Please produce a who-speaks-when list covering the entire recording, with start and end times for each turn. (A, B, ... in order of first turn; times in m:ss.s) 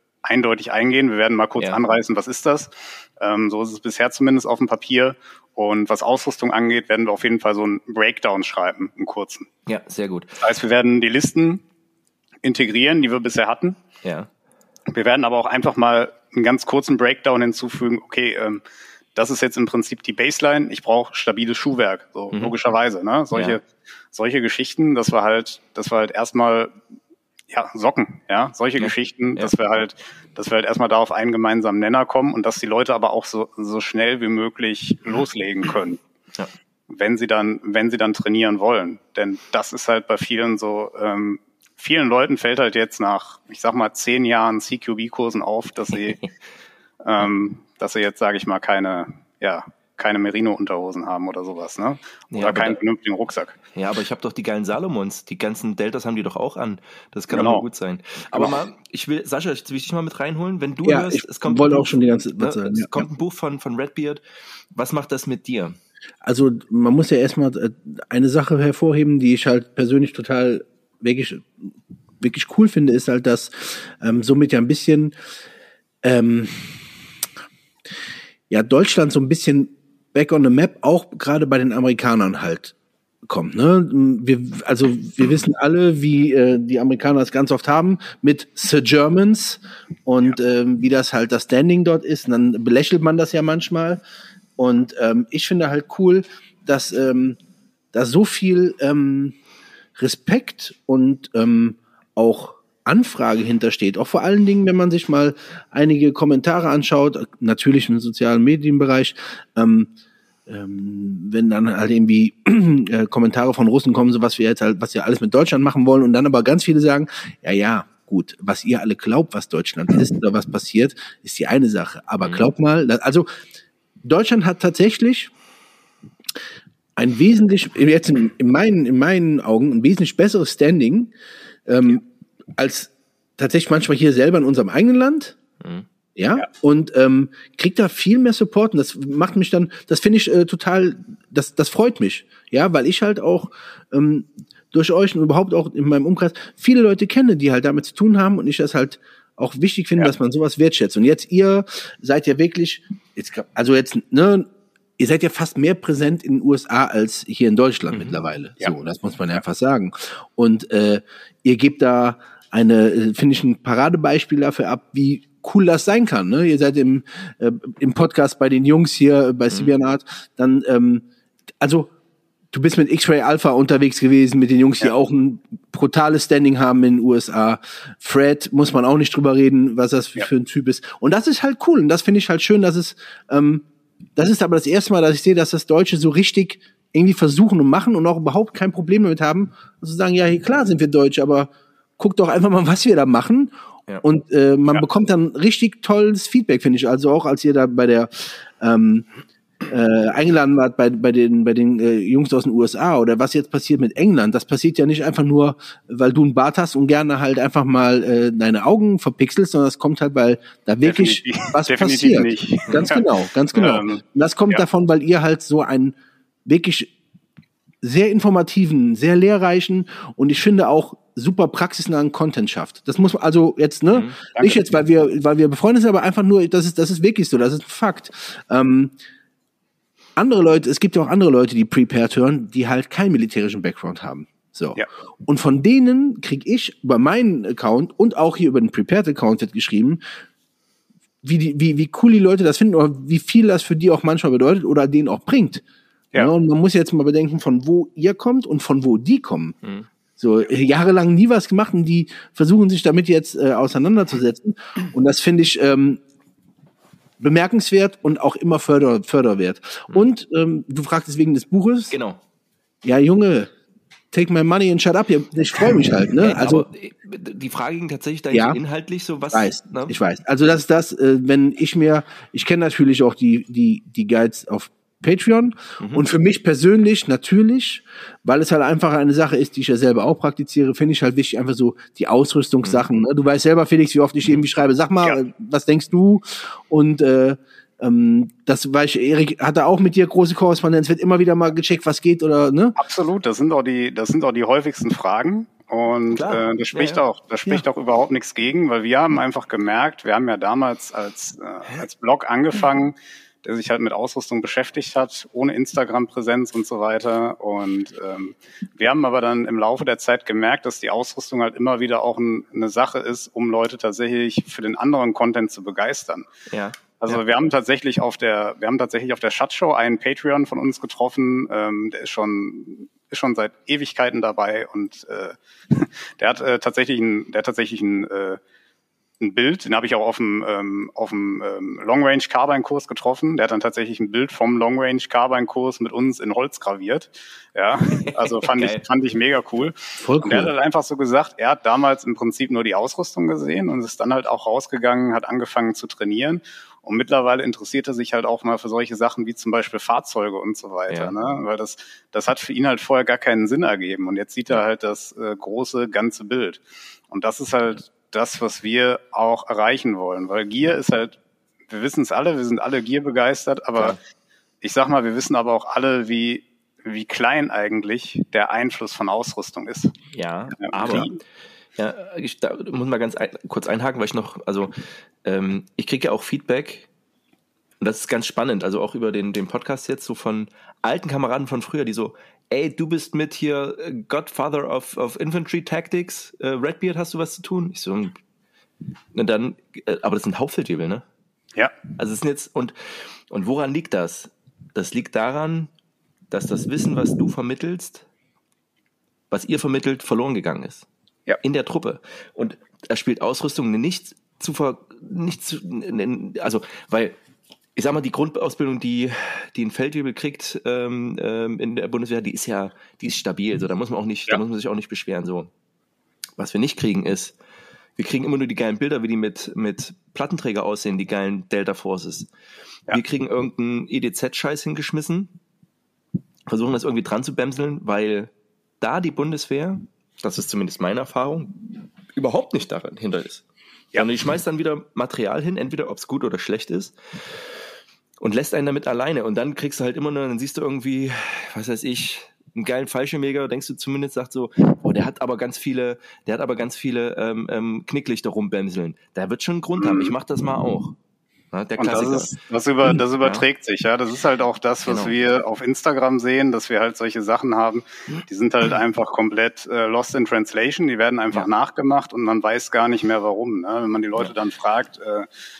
0:00.2-0:09.5 A
0:09.7-0:10.4 B
0:10.4-0:11.6 A
0:12.4-0:13.8 A
0:14.0-0:14.3 B
0:14.9-0:18.6 A
0:19.2-0:26.7 A
0:23.3-0:23.6 B
0:27.5-0:36.0 A
0:28.8-0:29.5 B
0:36.9-0:46.2 A
0:45.9-0:46.3 B
0:47.0-0:53.6 A
0:52.3-0:52.8 B
0:53.8-1:04.2 B
0:57.3-0:57.6 A
1:00.8-1:03.0 C
1:04.8-1:05.8 B
1:06.2-1:15.1 C
1:16.0-1:16.8 C
1:18.5-1:22.7 C
1:23.3-1:34.0 C
1:34.6-1:37.4 C
1:37.9-1:39.4 C
1:40.0-1:49.9 C
1:50.5-2:03.3 C
2:02.2-2:02.5 B
2:04.0-2:05.3 C
2:07.0-2:11.1 C
2:11.7-2:12.0 C
2:12.6-2:15.4 C
2:15.6-2:15.9 B
2:16.2-2:51.0 C
2:37.9-2:38.2 B
2:51.6-2:51.9 C
2:52.5-3:19.1 C
3:19.7-3:36.9 C
3:30.8-3:34.6 A
3:37.8-3:48.9 C
3:44.3-3:44.6 A
3:50.2-4:00.0 C
4:01.2-4:05.6 C
4:06.2-4:09.6 C
4:09.6-4:09.9 B
4:10.2-4:16.0 C
4:17.2-4:22.0 C
4:21.9-4:22.2 B
4:22.8-4:23.5 C
4:24.1-4:26.7 C
4:26.1-4:30.0 B
4:28.3-4:28.6 C
4:29.3-4:52.8 C
4:35.8-4:36.1 B
4:52.8-5:16.3 A
4:56.1-4:57.0 B
5:16.5-5:17.2 B
5:17.0-5:28.4 A
5:29.2-6:01.2 A
5:38.1-5:38.8 B
5:40.0-5:40.5 C
5:50.9-5:51.1 B
6:01.7-6:04.0 A
6:04.6-6:09.9 A
6:10.1-6:11.1 B
6:10.6-6:11.2 A
6:11.8-6:14.7 B
6:15.2-6:16.9 B
6:17.8-6:28.2 B
6:29.1-6:31.0 B
6:32.0-6:35.7 B
6:36.3-6:38.1 B
6:39.3-6:40.8 B
6:41.4-6:47.2 B
6:47.8-6:55.5 B
6:56.4-6:57.3 B
6:58.0-7:02.3 B
7:02.9-7:05.3 B
7:06.5-7:08.3 B
7:08.8-7:13.4 B
7:14.0-7:17.4 B
7:18.2-7:31.0 B
7:29.8-7:30.1 A
7:31.5-7:33.4 B
7:31.8-7:45.3 A
7:34.9-7:35.2 B